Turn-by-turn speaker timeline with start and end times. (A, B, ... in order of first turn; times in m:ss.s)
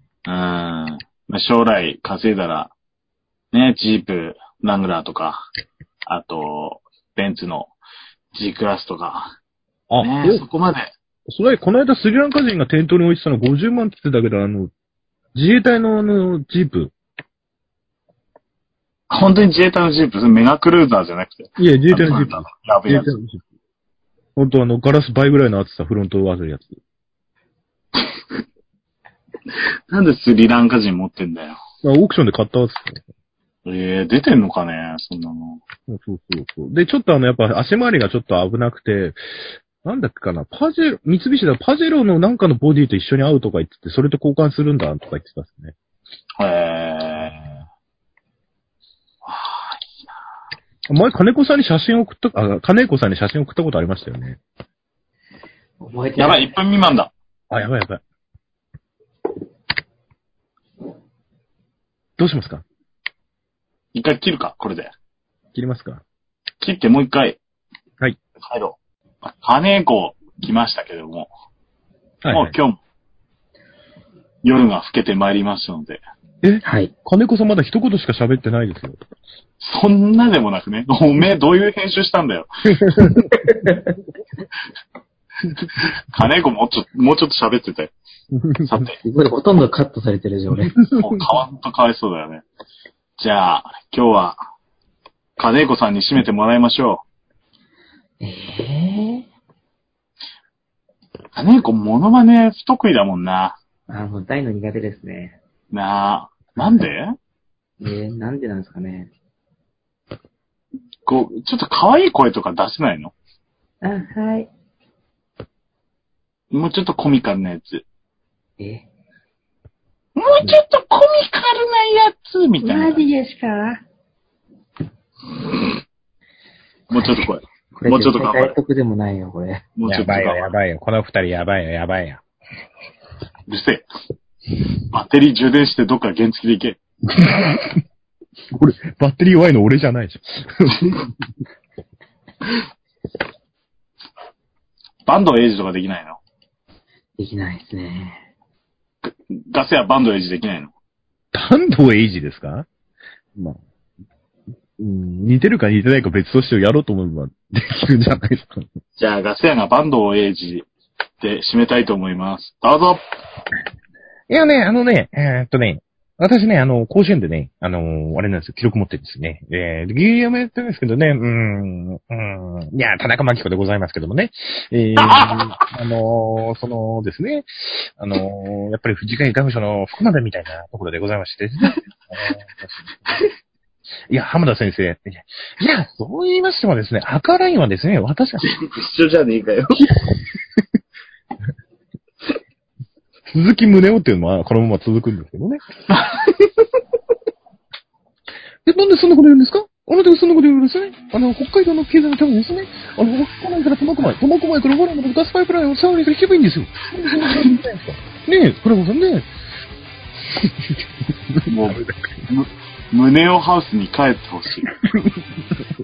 0:00.3-0:02.7 A
0:03.5-0:05.5 A
0:06.1-0:07.7 A
0:08.3-0:09.4 A
0:09.9-0:10.4 B
0:10.0-0:10.9 A
0:11.3-0:14.7 B
0:15.3-0:16.9 B
0:19.1-0:23.1 A
0:21.6-0:23.4 B
0:24.4-0:26.8 B
0:29.9-0:31.6 A
0:31.8-0:33.0 B
0:33.7-0:35.6 A
0:35.9-0:45.7 B
0:46.4-0:47.5 A
0:47.2-0:47.6 B
0:49.2-0:49.9 A
0:50.9-0:54.4 B
0:55.8-0:56.6 C
0:56.2-0:57.1 A
0:57.5-0:58.0 B
1:02.2-1:02.6 B
1:03.9-1:04.9 A
1:05.6-1:06.0 B
1:06.6-1:07.4 A
1:08.4-1:11.3 A
1:12.2-1:12.6 B
1:12.3-1:12.8 A
1:14.4-1:16.0 A
1:16.4-1:19.0 B
1:16.6-1:16.9 C
1:19.6-1:22.5 A
1:22.7-1:23.3 B
1:23.3-1:23.9 C
1:26.1-1:27.9 A
1:28.3-1:28.8 B
1:28.6-1:29.0 A
1:29.0-1:30.8 C
1:30.6-1:31.3 B
1:31.0-1:32.4 A
1:33.2-1:34.4 A
1:35.4-1:37.0 A
1:38.2-1:39.3 C
1:41.3-1:43.6 A
1:43.9-1:45.4 C
1:45.7-1:47.2 A
1:47.8-1:49.1 C
1:51.1-1:53.1 A
1:53.8-1:54.5 C
1:56.5-1:57.8 A
1:58.6-1:58.9 C
2:00.2-2:03.1 A
2:02.6-2:03.8 C
2:06.9-2:08.6 A
2:07.8-2:09.7 C
2:09.8-2:10.5 A
2:09.8-2:12.2 B
2:13.5-2:13.8 A
2:14.9-2:16.8 A
2:17.2-2:17.8 B
2:18.5-2:21.0 B
2:25.1-2:26.2 A
2:27.2-2:28.2 C
2:29.0-2:30.7 A
2:31.3-2:32.7 B
2:34.8-2:38.7 B
2:39.0-2:40.7 A
2:41.2-2:43.0 A
2:44.3-3:02.8 B
2:55.0-2:55.4 A
3:04.1-3:08.5 B
3:08.4-3:09.9 A
3:09.8-3:10.6 B
3:13.3-3:15.6 B
3:15.9-3:16.5 A
3:18.6-3:29.3 B
3:27.2-3:27.6 A
3:31.3-3:32.0 B
3:31.5-3:34.7 A
3:34.8-3:35.2 B